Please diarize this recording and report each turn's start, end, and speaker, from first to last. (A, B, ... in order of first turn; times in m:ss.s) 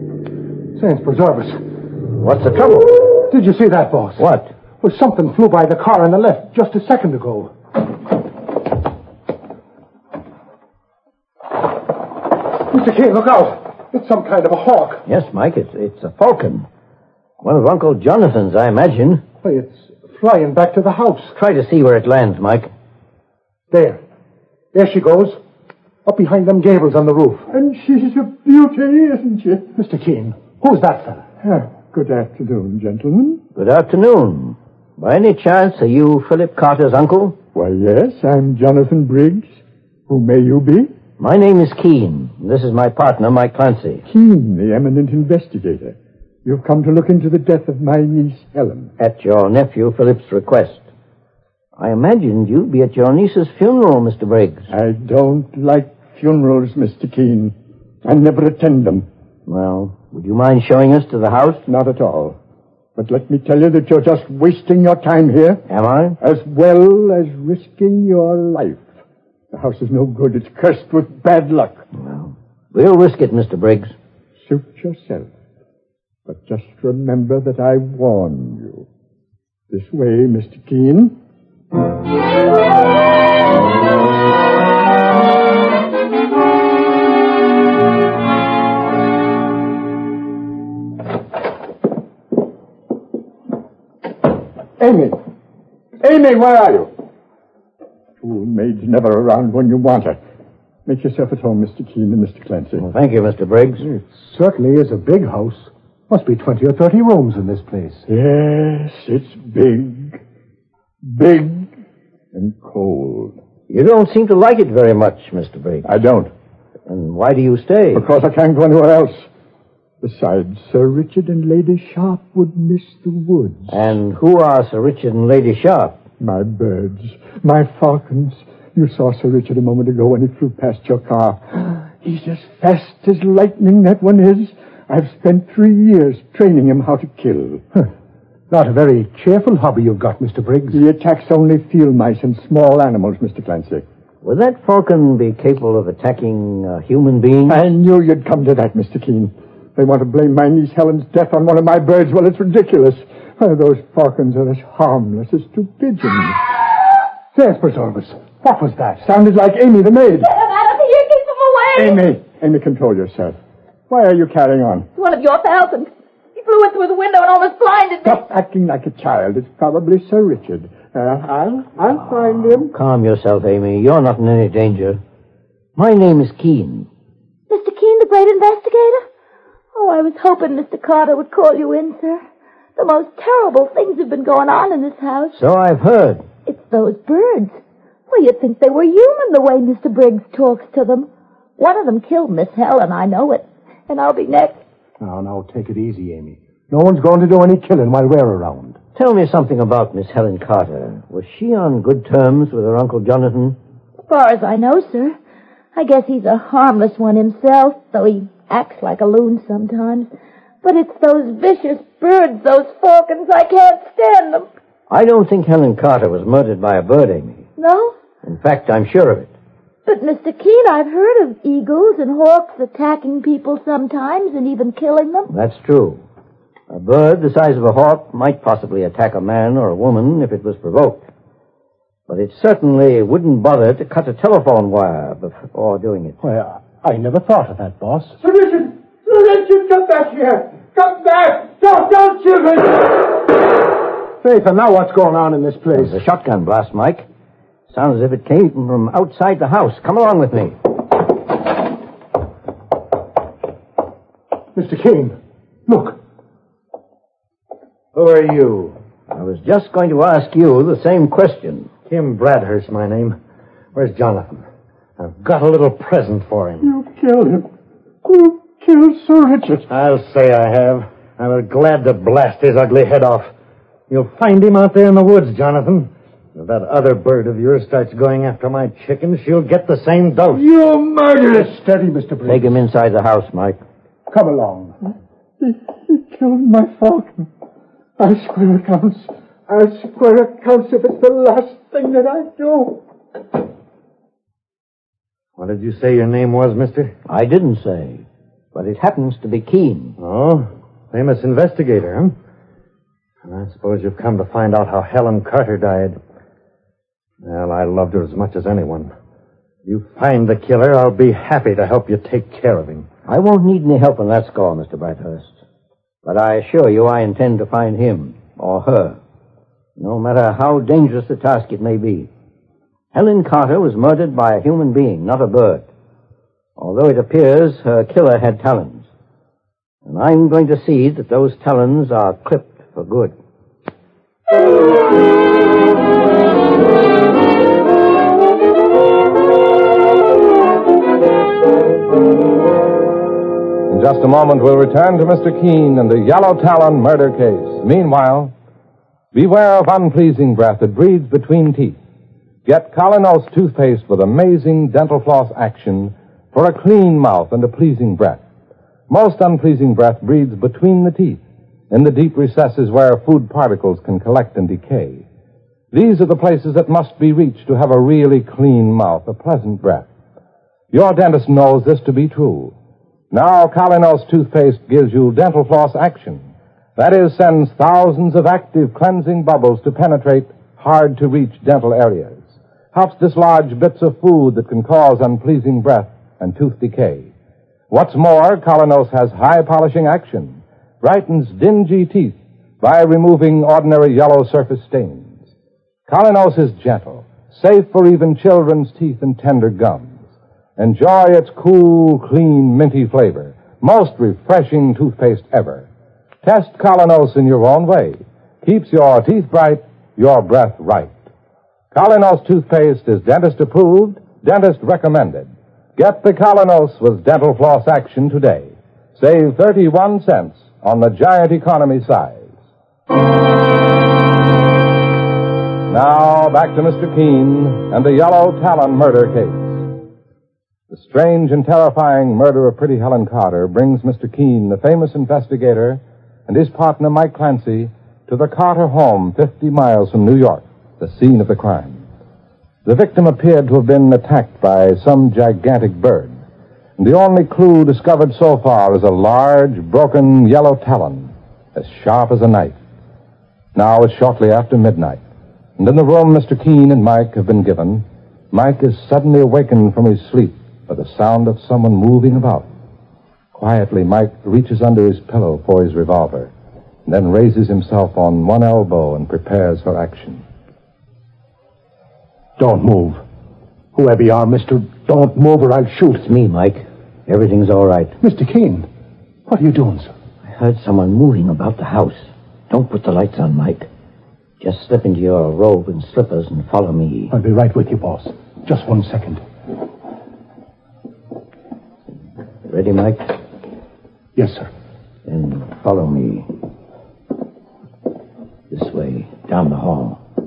0:00.8-0:01.6 A
0:02.2-0:03.2 B
0:03.3-0:04.2 A
0:04.2-0:04.5 B
0:04.8-0:07.5 A
0:12.6-0:15.0 A
0:15.0-0:16.7 B
0:17.4-0:19.2 B
0:19.4-0:21.3 A
0:21.4-0:22.7 B
0:23.7-0:24.0 A
0:24.7-0:25.4 A
0:26.0-0:27.5 A
0:27.5-0:29.7 C
0:29.7-0:31.3 A
0:31.4-0:33.4 C
0:33.6-0:37.4 B
0:37.5-0:39.5 C
0:40.1-0:40.9 C
0:41.2-0:44.0 B
0:44.1-0:48.9 C
0:49.0-0:50.8 B
0:51.8-0:54.7 B
0:54.7-0:59.0 C
0:59.5-1:01.6 B
1:01.7-1:02.4 C
1:03.0-1:05.6 C
1:05.7-1:06.2 B
1:06.2-1:08.9 C
1:09.5-1:11.9 C
1:11.9-1:13.9 B
1:14.4-1:15.3 C
1:16.3-1:18.9 C
1:19.7-1:21.2 C
1:34.8-1:35.2 C
1:36.0-1:36.9 C
1:38.2-1:40.2 C
1:40.9-1:42.9 C
1:42.8-1:43.8 B
1:43.8-1:48.0 A
1:48.1-1:50.2 C
1:51.0-1:51.7 C
1:52.3-1:53.4 C
1:53.7-1:55.9 B
1:55.9-1:56.3 C
1:56.9-1:58.1 B
1:57.9-1:59.2 C
2:00.0-2:03.7 C
2:03.7-2:06.0 B
2:06.2-2:17.6 C
2:18.5-2:20.8 A
2:20.7-2:23.8 C
2:24.2-2:27.6 B
2:27.5-2:36.4 C
2:37.4-2:39.0 A
2:39.0-2:40.3 C
2:40.2-2:42.0 D
2:41.8-2:43.4 C
2:43.9-2:44.9 C
2:45.0-2:48.2 D
2:48.0-2:52.7 C
2:52.5-2:55.0 B
2:55.8-2:56.9 B
2:57.5-2:59.0 D
2:59.7-3:02.2 D
3:02.8-3:05.4 D
3:05.4-3:06.2 B
3:06.4-3:07.6 D
3:08.1-3:14.6 D
3:15.0-3:18.8 A
3:18.9-3:23.6 B
3:24.1-3:25.2 D
3:25.7-3:30.1 D
3:30.6-3:34.5 D
3:34.9-3:37.5 B
3:37.6-3:38.0 D
3:38.2-3:39.3 B
3:39.9-3:45.3 D
3:45.3-3:46.0 B
3:46.7-3:51.1 B
3:52.1-3:56.2 B
3:56.2-4:03.0 A
4:04.2-4:06.0 A
4:05.7-4:07.0 B
4:07.7-4:10.7 B
4:14.5-4:16.0 A
4:17.9-4:18.8 E
4:19.1-4:21.7 B
4:21.9-4:23.2 E
4:23.7-4:24.4 E
4:25.0-4:26.7 E
4:26.6-4:27.5 C
4:28.0-4:29.6 C
4:29.7-4:33.3 E
4:33.9-4:40.4 E
4:40.4-4:42.6 A
4:42.2-4:43.6 B
4:44.1-4:44.8 A
4:45.4-4:47.3 C
4:48.0-4:52.8 C
4:55.4-4:56.9 E
4:57.1-5:00.0 B
5:00.0-5:02.2 E
5:03.2-5:06.0 E
5:07.2-5:08.9 E
5:09.6-5:12.9 E
5:13.1-5:15.3 B
5:16.0-5:19.0 B
5:19.8-5:22.1 B
5:22.9-5:25.7 B
5:26.6-5:28.9 B
5:29.8-5:33.1 B
5:43.7-5:48.3 F
5:49.1-5:51.8 F
5:52.4-5:58.2 F
5:58.9-6:05.0 F
6:05.7-6:09.9 F
6:10.7-6:12.5 F
6:13.1-6:27.1 F
6:27.7-6:35.1 F
6:35.9-6:40.0 F
6:40.6-6:45.7 F
6:46.2-6:50.9 F
6:51.7-7:02.3 F
7:05.7-7:09.6 F
7:10.7-7:21.8 F
7:22.6-7:26.2 F
7:26.8-7:32.6 F
7:33.6-7:35.0 F
7:35.6-7:42.5 F
7:43.4-7:46.3 F
7:46.9-7:50.2 F
7:52.4-7:53.0 A
7:53.7-7:56.1 A
7:56.0-7:57.9 B
7:58.0-7:58.7 A
7:59.3-7:59.9 A
8:00.2-8:03.7 B
8:04.4-8:07.1 B
8:07.1-8:09.2 A
8:12.5-8:13.2 B
8:14.2-8:14.5 A
8:15.1-8:16.3 B
8:18.5-8:20.0 B